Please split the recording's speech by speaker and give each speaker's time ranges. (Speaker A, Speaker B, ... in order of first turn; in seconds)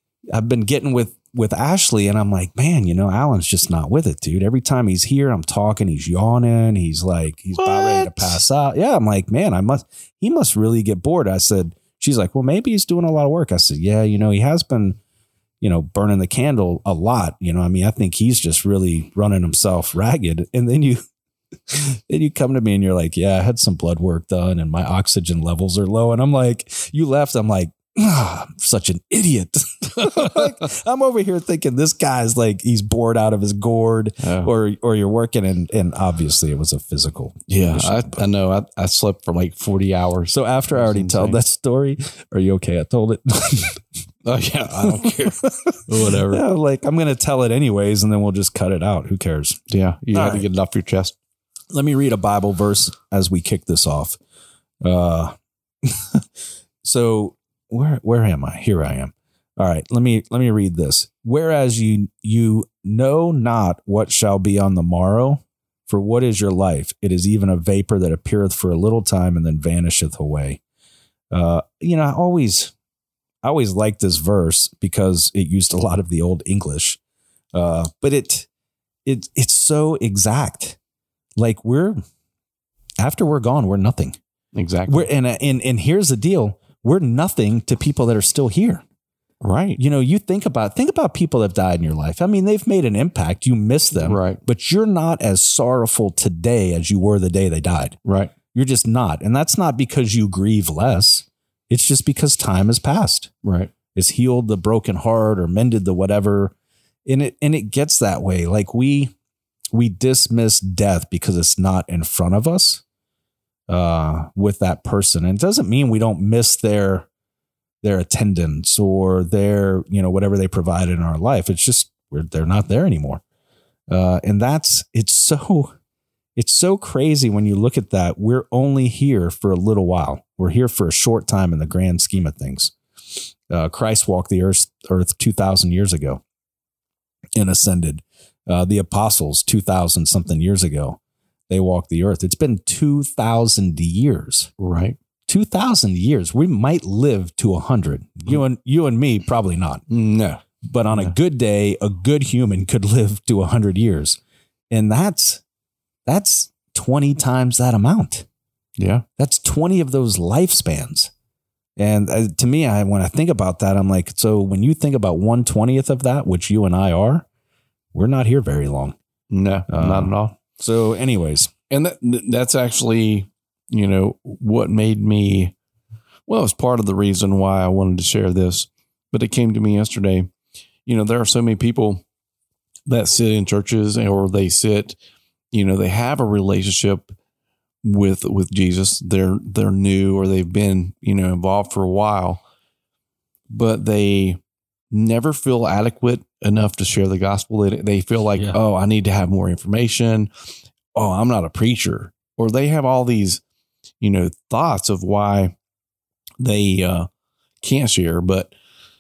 Speaker A: 0.3-15.0, 15.6-21.0, 21.7-38.2, 40.3-43.8, 44.7-49.6, 50.1-50.5, 51.7-54.2, 54.8-56.2, 56.8-70.6, 71.3-72.7, 73.4-77.0, 77.5-78.5, 79.0-80.8, 81.4-82.0, 83.0-84.2, 84.9-88.8, 89.8-98.0, 98.5-103.3, 104.0-106.5, 107.1-109.1, 109.7-112.8, 113.7-117.1, 117.8-123.2, 123.9-125.7, 126.4-136.2, 137.4-141.0, 141.5-144.5, 145.3-149.8, 150.6-154.2, 154.7-155.4, 156.1-158.2, 159.2-161.1, 161.8-167.3, 167.9-168.9, 169.7-171.5
Speaker B: 7.5-8.4, 30.0-30.4, 34.2-34.5, 37.5-41.4, 44.2-46.4, 49.7-51.1, 84.5-85.1, 89.4-89.8, 94.0-94.4, 98.0-98.3, 103.4-103.7, 144.6-145.0, 149.9-151.1, 158.8-159.1, 169.3-170.4, 171.7-175.6, 176.3-180.3, 180.9-182.0, 182.9-185.0, 185.5-187.1, 187.8-192.4, 193.5-194.4, 194.9-200.3, 200.9-203.4, 204.0-205.6, 206.4-207.1, 207.6-208.5